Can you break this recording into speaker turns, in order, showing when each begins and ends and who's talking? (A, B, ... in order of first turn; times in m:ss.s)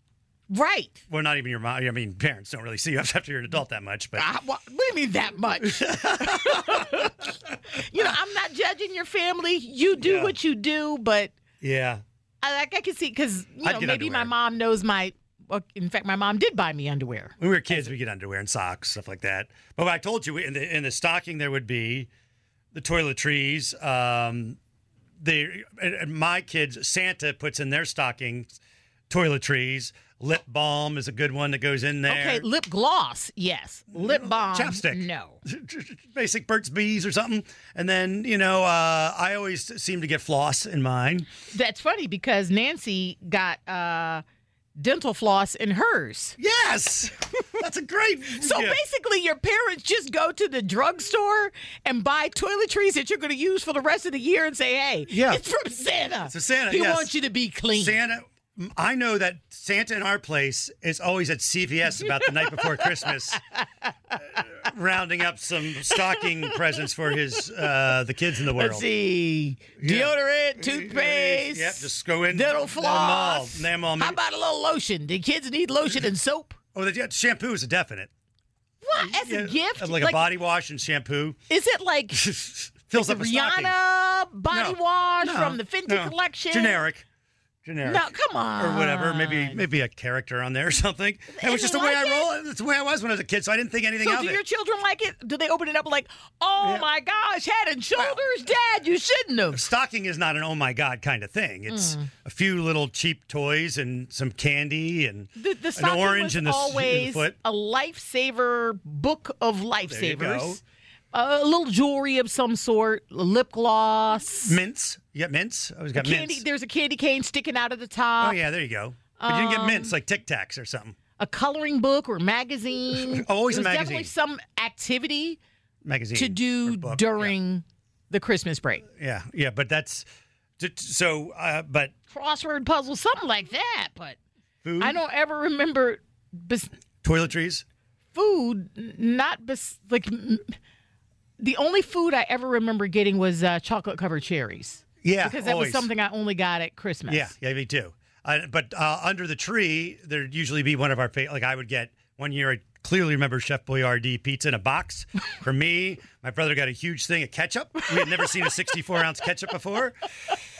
0:00.5-0:01.0 A
0:01.1-0:04.3 B
0:04.2-0:11.3 A
0:05.6-0:08.0 B
0:10.0-0:10.4 B
0:11.6-0:12.0 B
0:12.4-0:17.4 A
0:13.6-0:14.3 B
0:17.4-0:22.1 B
0:22.7-0:24.6 B
0:25.2-0:28.5 B
0:29.1-0:32.4 B
0:32.1-0:35.4 A
0:33.9-0:41.3 B
0:41.5-0:44.2 A
0:44.8-0:46.4 A
0:46.4-0:48.8 B
0:48.3-0:58.0 A
0:55.1-0:55.4 B
0:56.2-0:57.1 B
0:57.7-1:03.4 B
1:02.0-1:03.6 A
1:04.2-1:08.9 B
1:05.9-1:06.5 A
1:08.5-1:16.6 A
1:09.8-1:14.2 B
1:16.7-1:18.1 B
1:18.8-1:20.3 A
1:19.0-1:21.4 B
1:21.5-1:22.3 A
1:22.1-1:23.8 B
1:22.9-1:26.8 A
1:24.5-1:27.0 B
1:27.6-1:34.4 B
1:27.8-1:29.6 A
1:31.4-1:32.3 A
1:34.0-1:39.6 A
1:36.6-1:36.9 B
1:38.0-1:38.2 B
1:39.5-1:47.3 B
1:41.7-1:42.1 A
1:45.4-1:54.6 A
1:49.8-1:50.6 B
1:54.4-1:56.4 B
1:55.9-1:58.4 A
1:58.2-2:01.0 B
1:59.2-1:59.9 A
2:01.2-2:05.4 A
2:02.9-2:04.1 B
2:05.8-2:07.3 B
2:06.1-2:08.8 A
2:09.0-2:10.1 B
2:10.6-2:11.9 B
2:12.1-2:14.2 A
2:14.6-2:15.0 B
2:14.8-2:16.7 A
2:17.0-2:17.6 B
2:18.1-2:20.5 A
2:21.4-2:27.3 A
2:25.0-2:25.9 B
2:27.1-2:40.0 B
2:38.0-2:38.3 A